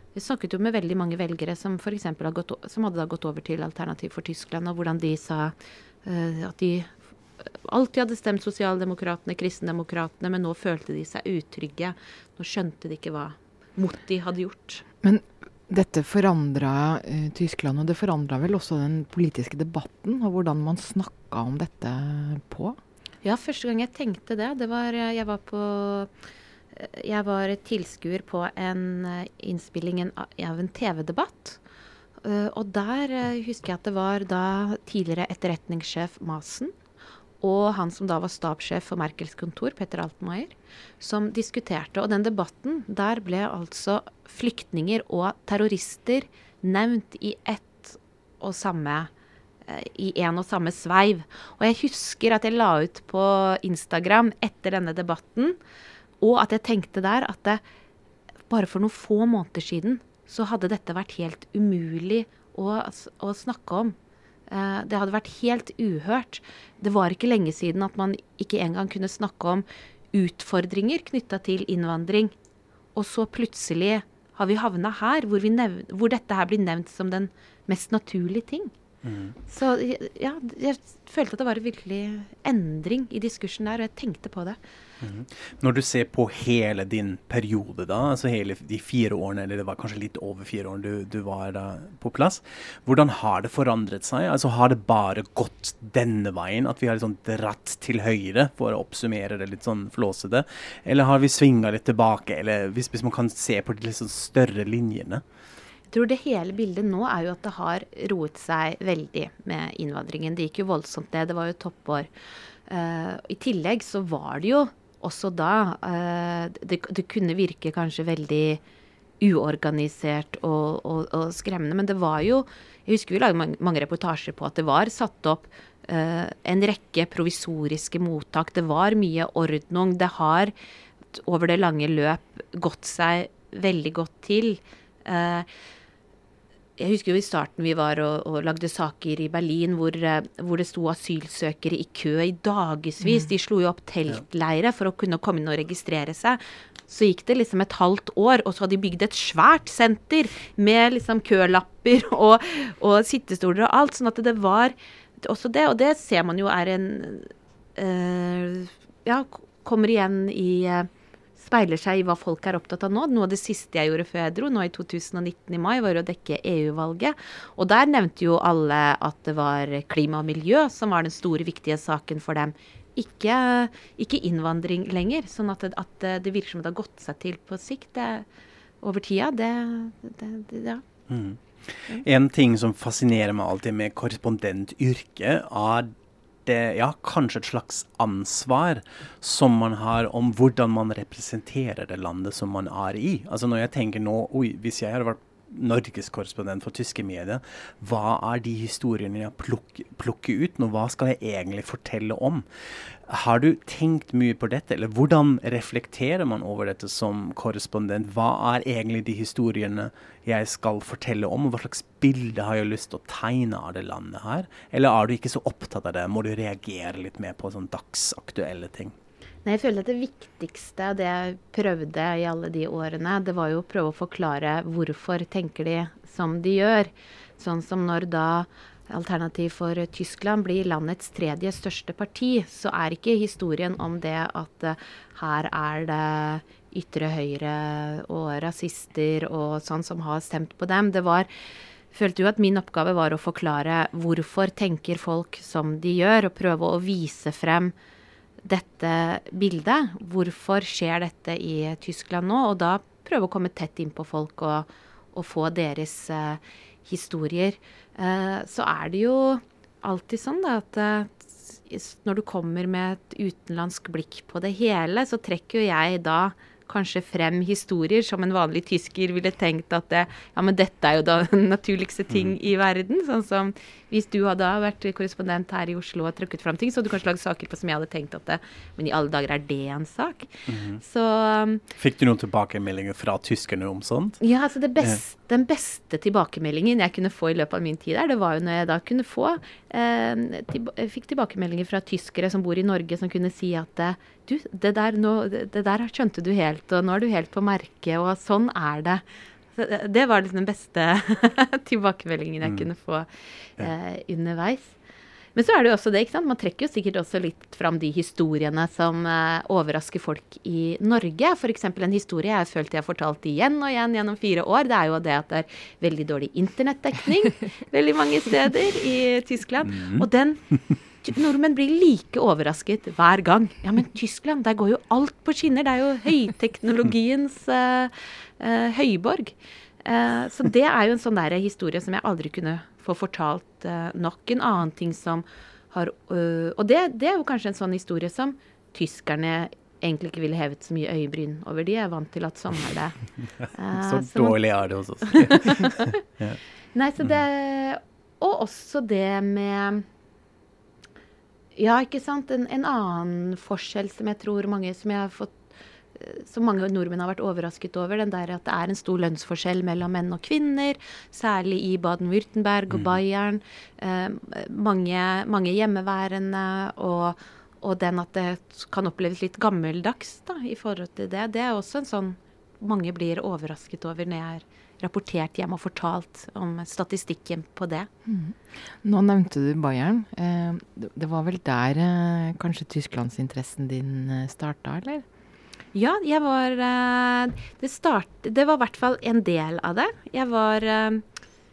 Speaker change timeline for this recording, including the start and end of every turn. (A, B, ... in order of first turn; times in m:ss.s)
0:00.1-0:06.9 A
0:07.4-0:14.8 A
0:15.0-0:22.8 B
0:23.2-0:26.1 A
0:26.7-0:31.6 A
0:32.2-0:36.7 A
0:37.4-0:49.1 A
0:49.6-0:55.6 A
0:56.2-0:57.6 A
0:58.5-1:03.9 A
1:04.5-1:12.3 A
1:12.9-1:18.7 A
1:19.0-1:19.4 C
1:19.5-1:24.6 A
1:25.0-1:45.2 C
1:45.9-1:52.1 A
1:52.7-1:58.6 A
1:59.2-2:10.5 A
2:11.1-2:15.5 A
2:16.8-2:58.2 A
2:58.8-3:00.8 A
3:01.1-3:05.9 C
3:06.4-3:38.9 C
3:39.4-4:01.3 A
4:01.9-4:07.7 A
4:08.4-4:41.6 A
4:40.5-4:40.8 C
4:41.8-4:44.2 C
4:44.2-4:59.0 A
4:59.5-5:04.8 A
5:05.3-5:43.0 A
5:19.7-5:20.0 C
5:43.5-5:44.4 A
5:43.7-5:46.4 C
5:45.0-5:46.0 A
5:46.7-5:49.8 A
5:51.6-6:17.9 A
6:18.0-6:25.0 B
6:25.7-6:31.0 A